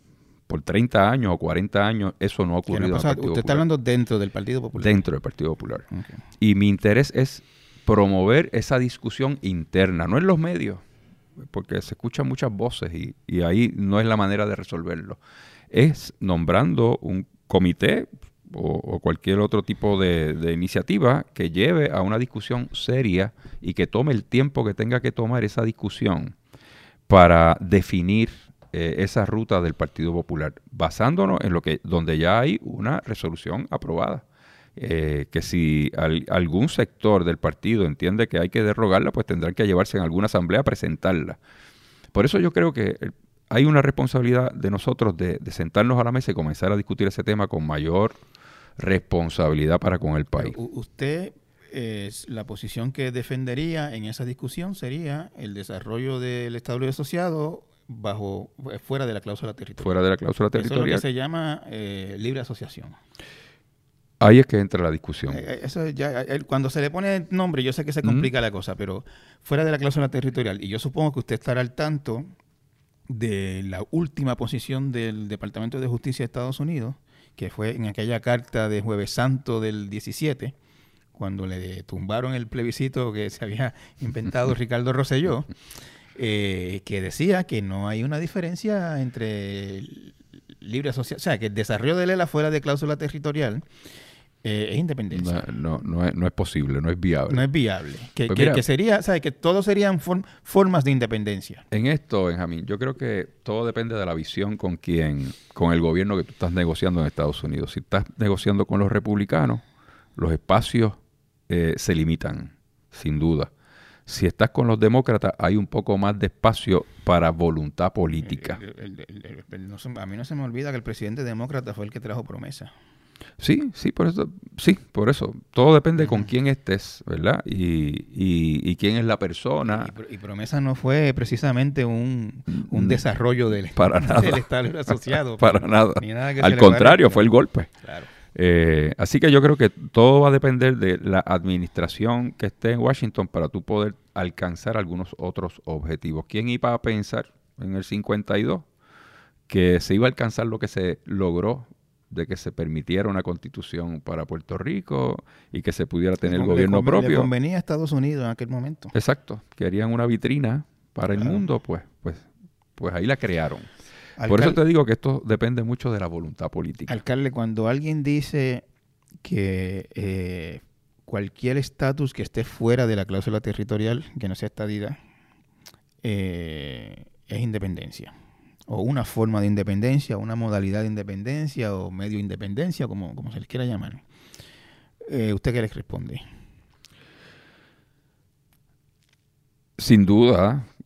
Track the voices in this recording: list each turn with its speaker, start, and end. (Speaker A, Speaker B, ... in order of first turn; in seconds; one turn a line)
Speaker A: 0.5-3.6
Speaker B: 2.7-5.0
Speaker A: 4.8-5.9
Speaker B: 5.9-6.2
Speaker A: 6.4-10.8
Speaker A: 11.4-15.2
Speaker A: 15.7-26.4
Speaker A: 27.1-34.2
Speaker A: 34.8-41.4
Speaker A: 42.1-48.2
Speaker A: 48.8-50.5
Speaker B: 50.4-63.0
Speaker A: 59.8-61.0
Speaker A: 64.2-65.5
Speaker B: 65.3-72.3
Speaker A: 68.0-68.3
Speaker B: 73.1-80.5
Speaker B: 81.2-85.5
Speaker B: 86.1-93.7
Speaker B: 94.4-95.5
Speaker A: 95.1-97.5
Speaker B: 97.3-101.7
Speaker A: 98.3-98.6
Speaker A: 101.7-109.6
Speaker A: 110.2-113.5
Speaker A: 114.1-118.6
Speaker B: 118.2-122.7
Speaker A: 123.4-129.9
Speaker B: 126.0-126.3
Speaker B: 129.7-138.1
Speaker A: 132.5-133.0
Speaker A: 133.8-137.7
Speaker A: 138.3-148.7
Speaker A: 149.5-157.3
Speaker B: 156.2-158.9
Speaker A: 158.9-163.7
Speaker B: 161.1-161.4
Speaker B: 164.2-164.6
Speaker A: 164.3-167.0
Speaker B: 166.9-168.7
Speaker B: 169.2-175.0
Speaker B: 176.0-178.1
Speaker B: 178.7-184.0
Speaker B: 185.1-186.2
Speaker A: 189.8-190.7